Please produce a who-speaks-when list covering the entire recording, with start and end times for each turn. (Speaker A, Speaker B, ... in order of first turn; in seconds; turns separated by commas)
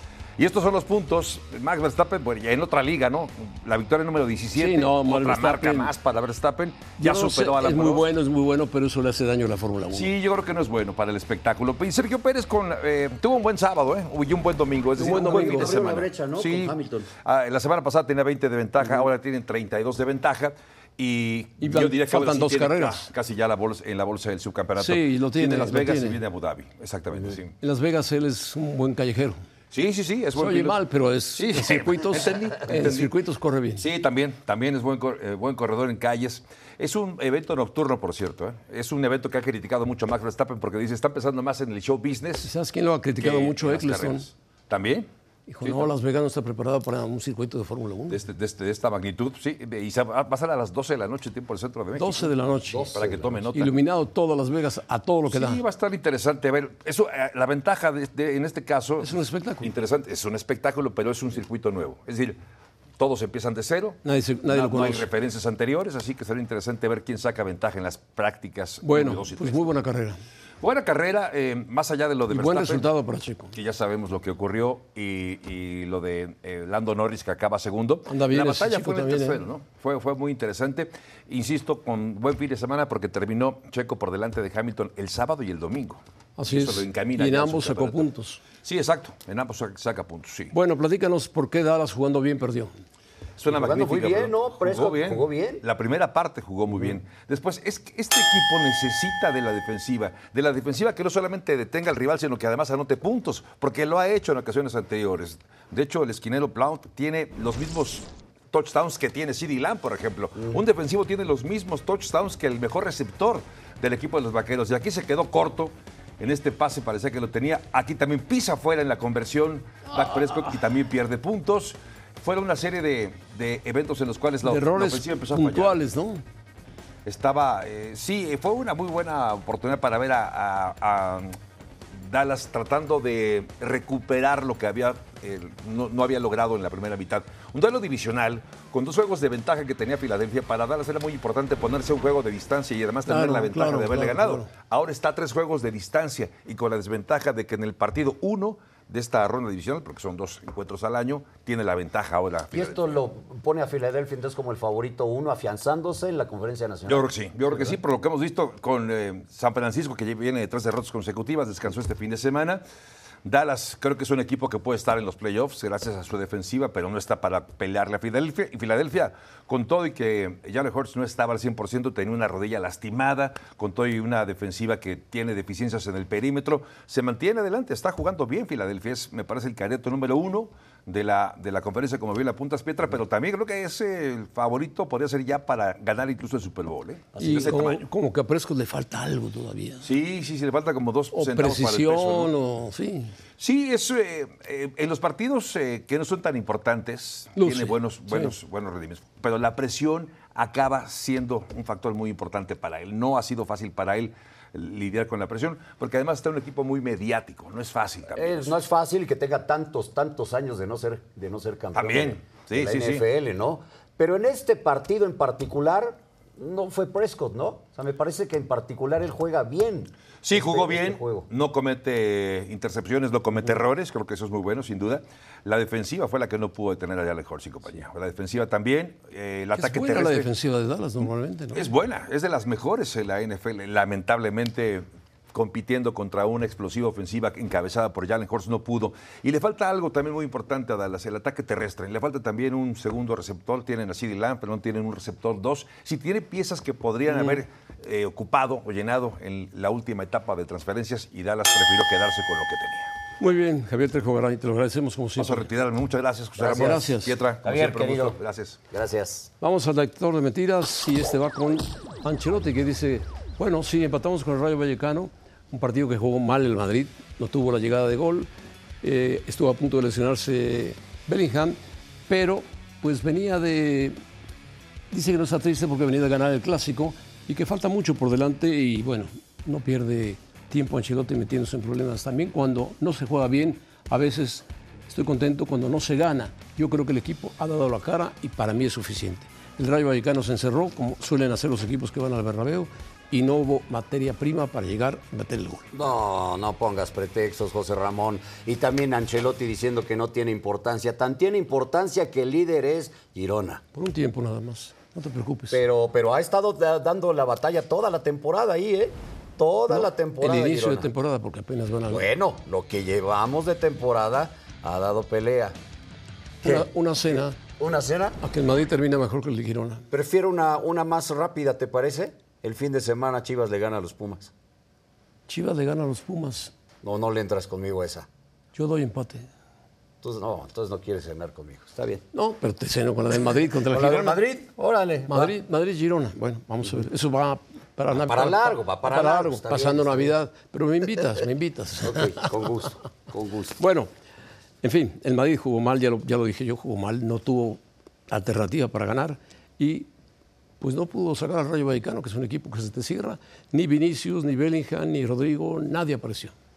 Speaker A: 0.4-8.1, Speaker B: 4.5-5.9, Speaker B: 7.0-10.1, Speaker A: 9.9-27.6, Speaker B: 15.0-15.7, Speaker C: 15.0-17.1, Speaker B: 21.6-23.1, Speaker B: 24.8-26.2, Speaker B: 27.6-29.4, Speaker A: 29.7-30.8, Speaker B: 30.4-33.8, Speaker A: 31.4-33.1, Speaker A: 33.8-42.5, Speaker B: 42.4-44.3, Speaker A: 43.2-45.1, Speaker B: 45.5-48.2, Speaker A: 45.6-45.9, Speaker A: 48.1-52.4, Speaker B: 52.0-52.9, Speaker C: 52.7-53.5, Speaker A: 52.9-53.7, Speaker B: 53.5-55.6, Speaker A: 55.3-62.4, Speaker B: 59.0-59.7, Speaker A: 63.0-69.7, Speaker B: 64.0-65.1, Speaker B: 68.8-70.2, Speaker A: 70.6-72.9, Speaker B: 72.3-73.5, Speaker A: 73.5-88.1, Speaker B: 78.1-79.4, Speaker B: 86.4-88.4, Speaker A: 88.6-90.5, Speaker B: 90.5-92.7, Speaker A: 93.4-125.8, Speaker C: 93.5-95.6, Speaker B: 124.4-126.2, Speaker A: 127.1-131.3, Speaker A: 131.9-152.8, Speaker B: 143.1-144.5, Speaker C: 152.5-157.8, Speaker A: 156.9-162.6, Speaker A: 163.2-187.8, Speaker C: 187.2-187.6, Speaker B: 187.2-189.9, Speaker A: 189.8-192.3, Speaker B: 191.1-193.2, Speaker A: 193.4-208.5, Speaker B: 197.4-198.3, Speaker C: 208.1-221.3, Speaker A: 211.8-213.1, Speaker A: 220.2-230.3, Speaker B: 229.6-231.7, Speaker A: 231.5-252.9, Speaker B: 247.1-247.4, Speaker B: 253.2-255.5, Speaker A: 255.2-258.6, Speaker C: 256.4-256.9, Speaker B: 256.4-257.1, Speaker C: 257.4-258.2, Speaker C: 258.7-259.3, Speaker B: 259.4-268.3, Speaker B: 268.8-274.0, Speaker B: 274.9-295.7, Speaker C: 295.7-303.6, Speaker B: 303.7-305.6, Speaker C: 305.5-310.9, Speaker B: 309.7-312.1, Speaker C: 311.9-315.6, Speaker B: 316.4-317.4, Speaker C: 316.4-318.2, Speaker B: 318.2-319.9, Speaker C: 319.9-324.3, Speaker B: 325.3-326.5, Speaker C: 326.8-328.1, Speaker B: 328.6-329.3, Speaker C: 330.0-332.0, Speaker B: 332.1-334.2, Speaker C: 333.7-335.3, Speaker B: 335.1-342.3, Speaker C: 337.9-340.2, Speaker C: 341.8-343.6, Speaker B: 343.6-343.9, Speaker B: 344.6-349.9, Speaker B: 350.6-356.3